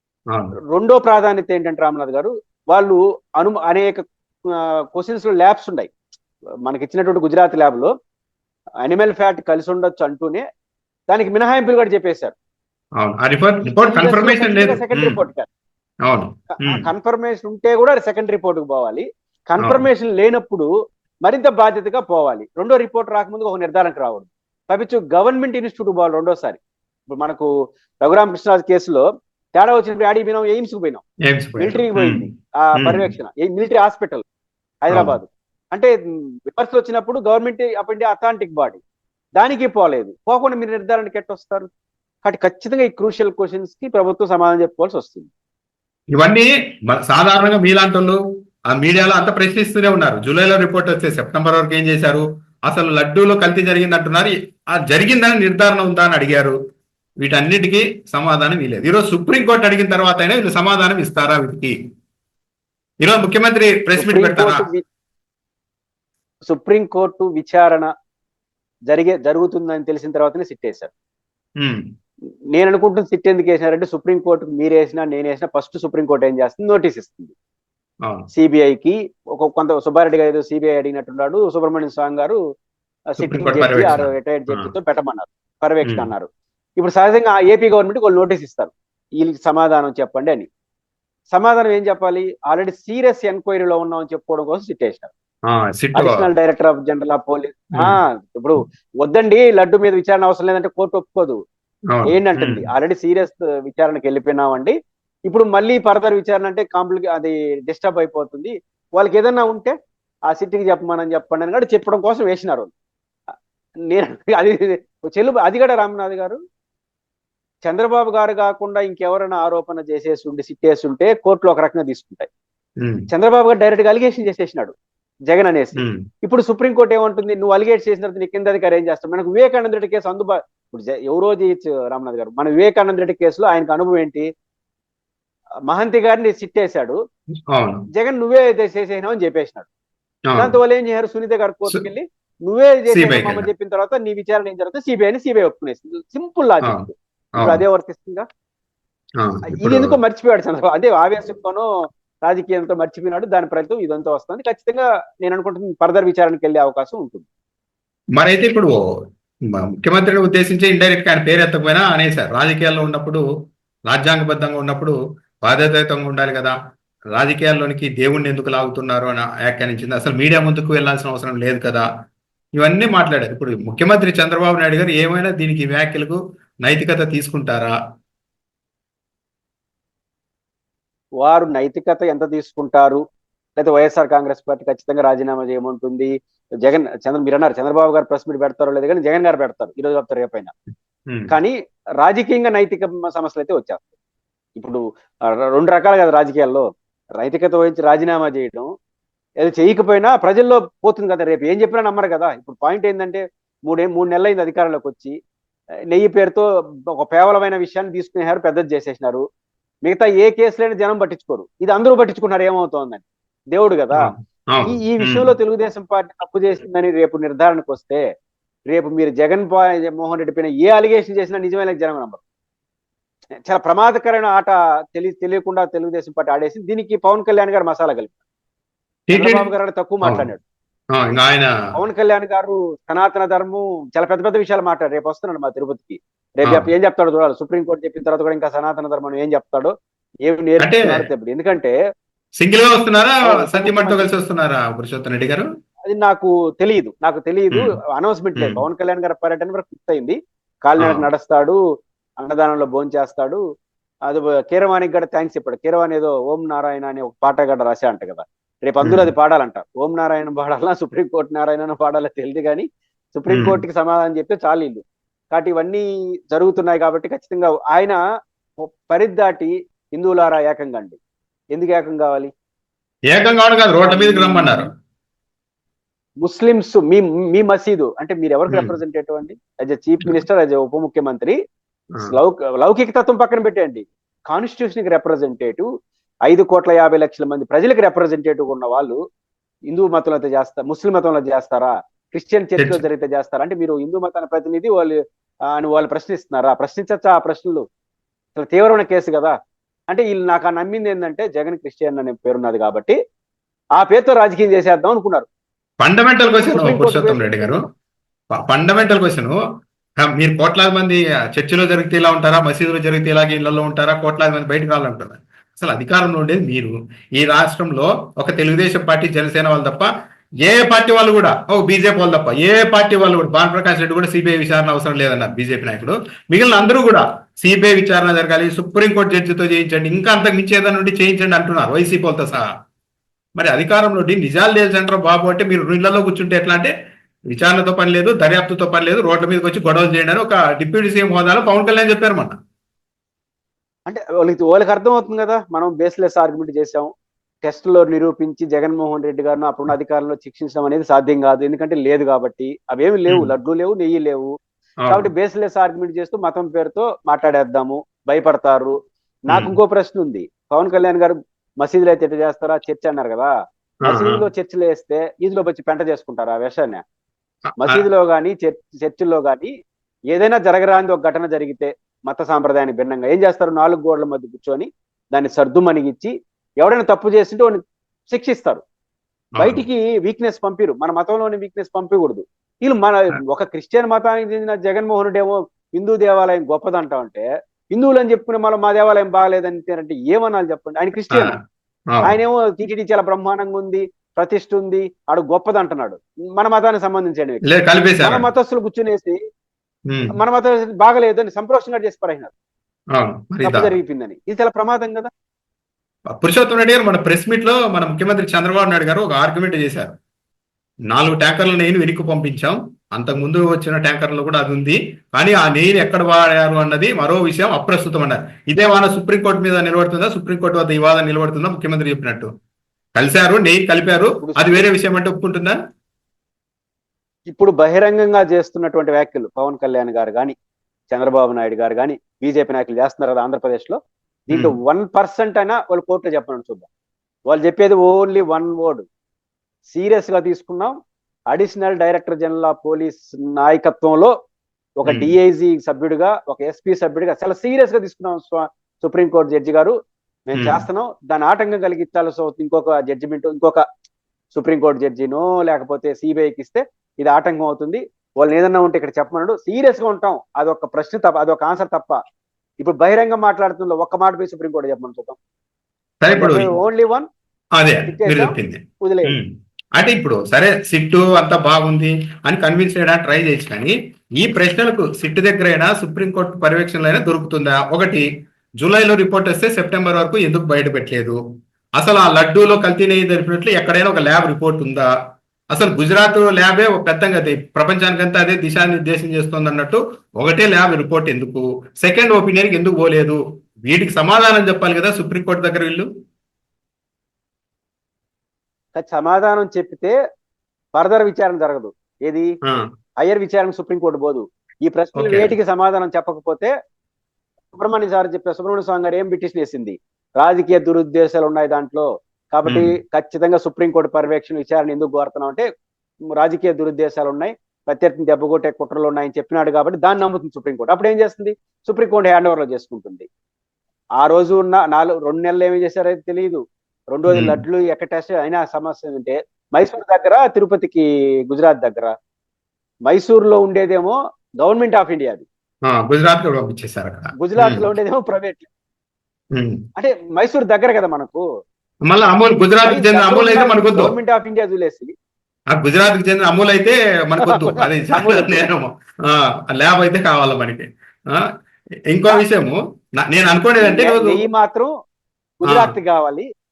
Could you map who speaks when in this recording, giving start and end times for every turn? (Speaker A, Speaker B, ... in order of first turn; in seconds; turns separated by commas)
Speaker A: 0.7-5.9, Speaker A: 6.7-7.9, Speaker A: 8.8-10.4, Speaker A: 11.1-12.3, Speaker B: 13.0-15.2, Speaker A: 13.6-15.5, Speaker B: 16.1-16.8, Speaker A: 16.5-20.7, Speaker A: 21.2-26.6, Speaker A: 27.1-27.5, Speaker A: 28.0-31.0, Speaker B: 31.3-33.1, Speaker A: 31.6-34.2, Speaker A: 34.8-35.9, Speaker B: 34.9-35.1, Speaker A: 36.5-38.8, Speaker A: 39.4-41.7, Speaker A: 42.2-45.3, Speaker B: 46.1-48.2, Speaker B: 48.7-56.5, Speaker B: 57.2-61.7, Speaker B: 63.0-64.6, Speaker A: 63.9-64.8, Speaker A: 66.5-67.9, Speaker A: 68.9-70.9, Speaker A: 72.5-77.3, Speaker A: 78.3-82.4, Speaker A: 83.1-90.5, Speaker B: 83.2-84.7, Speaker B: 85.8-86.1, Speaker A: 91.3-95.1, Speaker B: 95.5-96.2, Speaker A: 95.9-101.4, Speaker B: 101.9-102.6, Speaker A: 102.0-104.7, Speaker A: 105.3-109.7, Speaker A: 110.3-112.7, Speaker A: 113.9-116.4, Speaker A: 117.6-122.3, Speaker B: 122.8-123.1, Speaker A: 123.1-124.7, Speaker A: 125.3-134.2, Speaker A: 135.7-137.0, Speaker B: 137.5-137.8, Speaker A: 137.9-139.7, Speaker B: 140.3-140.5, Speaker A: 140.3-148.2, Speaker B: 142.9-143.5, Speaker B: 147.4-147.6, Speaker B: 149.2-150.0, Speaker A: 149.5-151.7, Speaker A: 152.2-157.2, Speaker B: 158.2-158.8, Speaker B: 159.5-163.2, Speaker B: 163.9-166.5, Speaker B: 167.1-171.9, Speaker B: 172.6-177.7, Speaker A: 181.2-183.0, Speaker A: 183.6-190.5, Speaker B: 191.1-191.3, Speaker A: 191.3-193.9, Speaker A: 194.6-194.8, Speaker A: 195.5-196.6, Speaker A: 197.2-198.7, Speaker A: 199.4-205.2, Speaker A: 205.9-209.2, Speaker A: 209.8-214.1, Speaker B: 213.9-215.3, Speaker A: 214.6-218.0, Speaker A: 218.7-222.2, Speaker A: 223.4-228.2, Speaker B: 229.1-229.5, Speaker A: 229.1-230.4, Speaker B: 230.9-231.5, Speaker A: 231.7-239.7, Speaker A: 240.2-241.7, Speaker B: 240.6-241.0, Speaker B: 242.4-245.5, Speaker A: 243.2-244.1, Speaker A: 245.8-251.6, Speaker B: 248.4-248.6, Speaker B: 250.8-251.1, Speaker A: 252.2-253.4, Speaker A: 254.1-268.0, Speaker B: 258.8-259.1, Speaker B: 263.3-263.6, Speaker A: 268.9-271.0, Speaker A: 271.5-272.3, Speaker B: 273.1-274.7, Speaker A: 273.8-274.7, Speaker A: 276.2-281.4, Speaker A: 282.0-285.7, Speaker A: 286.3-289.0, Speaker A: 289.7-295.0, Speaker A: 295.5-297.6, Speaker A: 298.4-299.3, Speaker A: 299.9-302.9, Speaker A: 303.8-305.3, Speaker B: 305.8-307.6, Speaker A: 306.3-307.7, Speaker B: 308.3-309.4, Speaker B: 310.0-319.9, Speaker B: 320.4-332.4, Speaker B: 333.4-336.7, Speaker B: 337.3-342.4, Speaker A: 343.9-346.9, Speaker A: 347.4-354.3, Speaker B: 354.8-355.1, Speaker A: 354.9-358.7, Speaker A: 359.3-363.3, Speaker B: 359.3-359.6, Speaker B: 363.8-364.2, Speaker A: 363.9-366.8, Speaker B: 367.6-367.8, Speaker A: 367.6-369.5, Speaker A: 370.1-378.6, Speaker B: 379.4-379.6, Speaker A: 379.4-391.3, Speaker A: 392.0-397.4, Speaker B: 397.4-398.2, Speaker A: 398.0-399.2, Speaker B: 399.9-400.1, Speaker A: 400.1-402.3, Speaker B: 402.9-403.7, Speaker A: 403.4-405.1, Speaker B: 406.2-409.9, Speaker B: 410.9-422.3, Speaker B: 422.9-425.6, Speaker A: 424.2-424.6, Speaker A: 427.3-430.3, Speaker A: 430.9-436.7, Speaker A: 437.3-438.8, Speaker A: 439.7-440.7, Speaker A: 441.3-444.1, Speaker A: 444.8-449.7, Speaker B: 444.9-445.1, Speaker A: 450.3-453.6, Speaker B: 450.3-450.6, Speaker A: 454.3-462.0, Speaker A: 462.6-465.2, Speaker B: 466.0-466.5, Speaker A: 466.1-467.1, Speaker B: 467.6-478.1, Speaker A: 467.9-469.2, Speaker B: 478.6-481.2, Speaker B: 481.8-484.9, Speaker B: 485.5-495.9, Speaker A: 498.7-499.9, Speaker A: 500.7-502.3, Speaker A: 503.0-506.5, Speaker B: 504.9-505.3, Speaker A: 507.5-515.4, Speaker B: 512.5-512.7, Speaker A: 516.2-523.1, Speaker A: 524.0-526.4, Speaker A: 526.9-531.9, Speaker B: 527.1-527.4, Speaker A: 532.9-535.2, Speaker B: 535.7-537.7, Speaker A: 537.2-538.5, Speaker B: 539.3-539.6, Speaker A: 539.8-541.2, Speaker B: 541.9-543.9, Speaker A: 542.6-544.9, Speaker B: 545.5-551.2, Speaker A: 547.2-548.4, Speaker B: 551.9-554.2, Speaker A: 553.6-554.7, Speaker A: 555.4-556.2, Speaker B: 555.5-555.7